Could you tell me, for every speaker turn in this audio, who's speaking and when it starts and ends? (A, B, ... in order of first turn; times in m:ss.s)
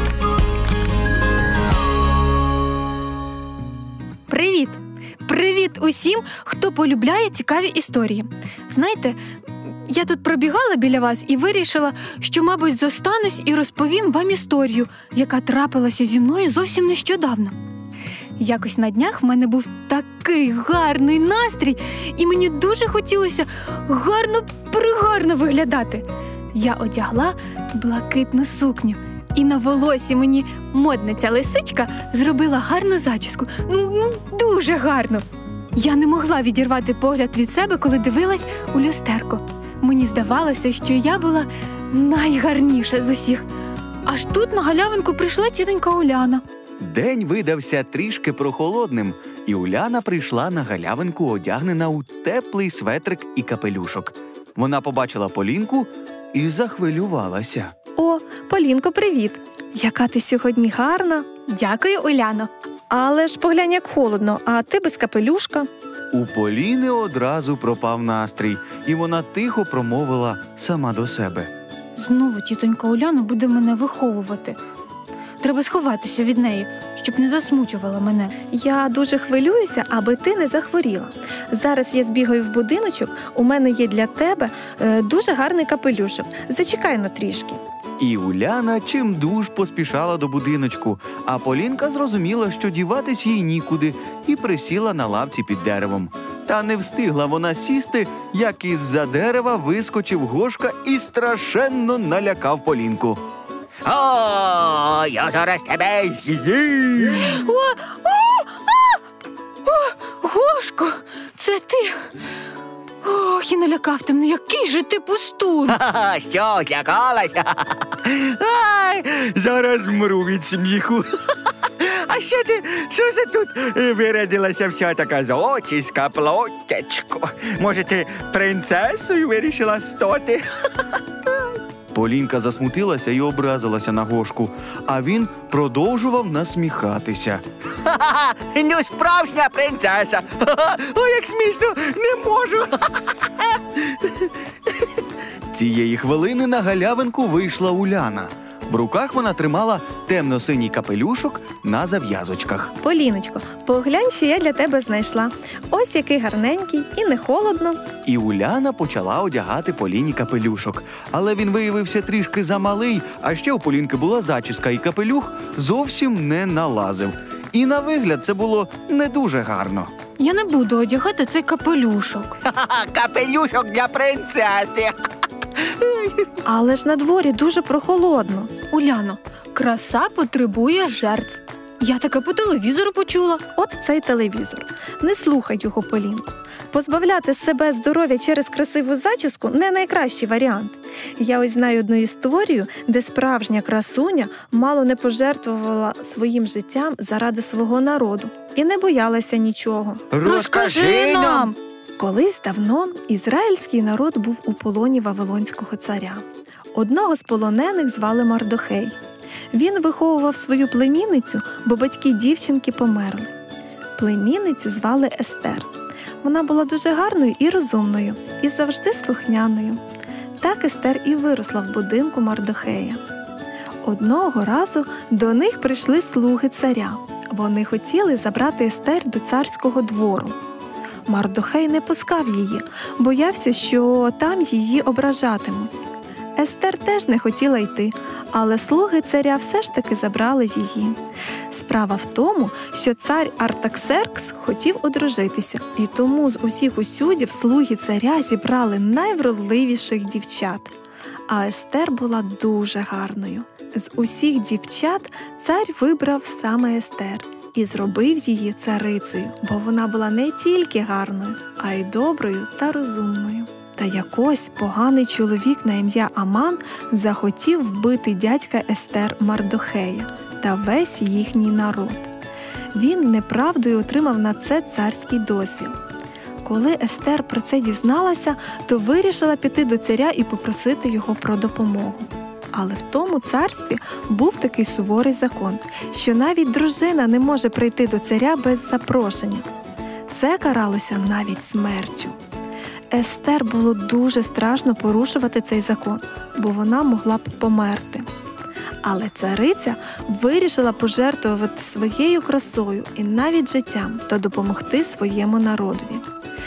0:04.3-0:09.2 A
0:09.9-0:17.6 A
0:18.4-0:35.2 A
0:35.8-0:43.4 A
0:44.1-0:46.4 A
0:46.8-0:57.7 B
0:58.0-1:01.2 C
1:01.5-1:02.5 A
1:02.9-1:05.7 C
1:06.1-1:11.5 B
1:12.0-1:14.6 A
1:15.4-1:18.3 A
1:18.5-1:27.6 C
1:28.0-1:43.2 B
1:43.8-1:47.2 D
1:47.1-1:49.0 A
1:49.6-1:52.0 A
1:53.0-1:55.8 A
1:55.7-2:01.0 D
1:59.4-1:59.7 B
2:01.8-2:10.5 D
2:11.9-2:17.4 B
2:17.8-2:22.4 D
2:20.9-2:22.7 B
2:25.5-2:32.8 B
2:32.8-2:37.8 C
2:38.0-2:49.9 B
2:50.2-2:52.4 A
2:52.4-2:55.0 D
2:55.8-2:56.2 D
2:56.5-2:58.5 C
2:58.7-3:03.4 A
3:03.6-3:20.1 C
3:20.1-3:21.5 B
3:20.2-3:21.6 A
3:22.0-3:29.0 C
3:29.5-3:33.3 C
3:34.0-3:35.7 C
3:36.2-3:39.8 C
3:40.4-3:43.0 C
3:43.8-3:50.4 C
3:51.1-3:55.7 C
3:56.4-4:01.0 C
4:01.5-4:10.7 C
4:11.3-4:32.1 C
4:32.7-4:35.8 C
4:36.4-4:49.5 C
4:50.1-4:52.2 C
4:52.9-4:58.1 C
4:58.8-5:06.0 C